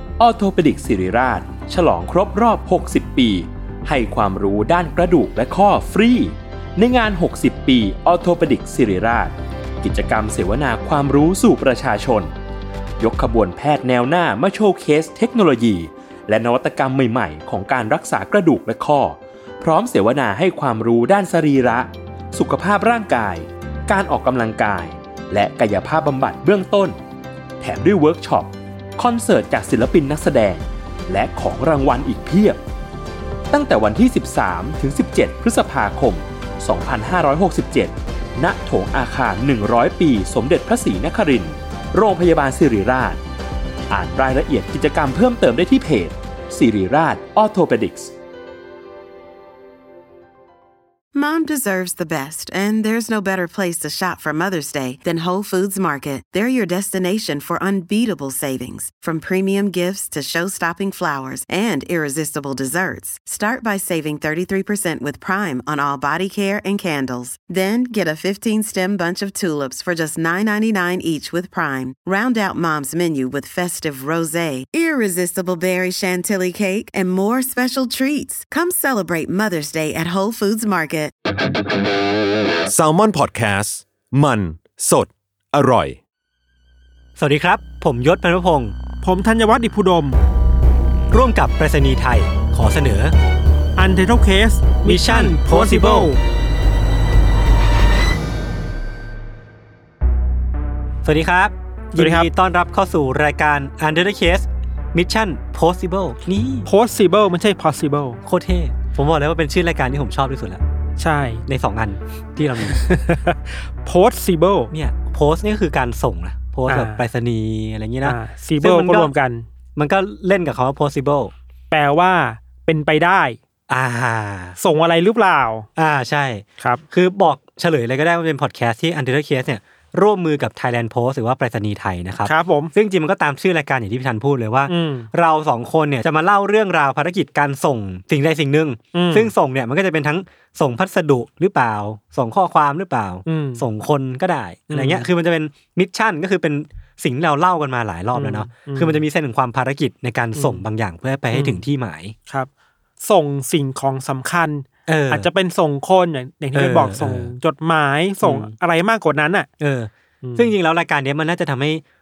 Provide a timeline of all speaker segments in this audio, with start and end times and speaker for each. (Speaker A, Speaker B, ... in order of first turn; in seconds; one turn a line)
Speaker A: 0.2-12.3
Speaker A: 13.0-27.0
Speaker A: 27.6-32.6
Speaker A: 33.5-43.2
Speaker A: 43.9-48.1
Speaker B: 51.1-81.1
Speaker C: 82.7-86.0
Speaker D: 87.2-88.7
Speaker E: 89.0-90.2
Speaker D: 91.1-93.2
Speaker E: 93.8-96.2
Speaker D: 94.8-96.1
Speaker D: 101.0-106.7
Speaker E: 102.0-102.3
Speaker E: 106.7-108.2
Speaker D: 108.2-110.6
Speaker E: 111.0-111.4
Speaker D: 111.5-112.9
Speaker E: 112.6-114.7
Speaker D: 114.7-119.1
Speaker E: 116.7-117.0
Speaker E: 118.0-119.5
Speaker D: 119.8-121.3
Speaker E: 121.7-123.4
Speaker D: 123.7-124.6
Speaker E: 124.6-125.7
Speaker D: 125.8-152.2
Speaker E: 132.2-132.7
Speaker E: 134.7-135.1
Speaker E: 138.9-139.3
Speaker E: 143.3-143.7
Speaker E: 144.7-145.1
Speaker E: 148.1-149.0
Speaker E: 150.3-150.7
Speaker E: 151.3-151.7
Speaker E: 153.0-159.5
Speaker D: 154.9-155.3
Speaker D: 156.5-157.3
Speaker D: 158.2-158.5
Speaker D: 159.6-161.8
Speaker E: 160.2-160.6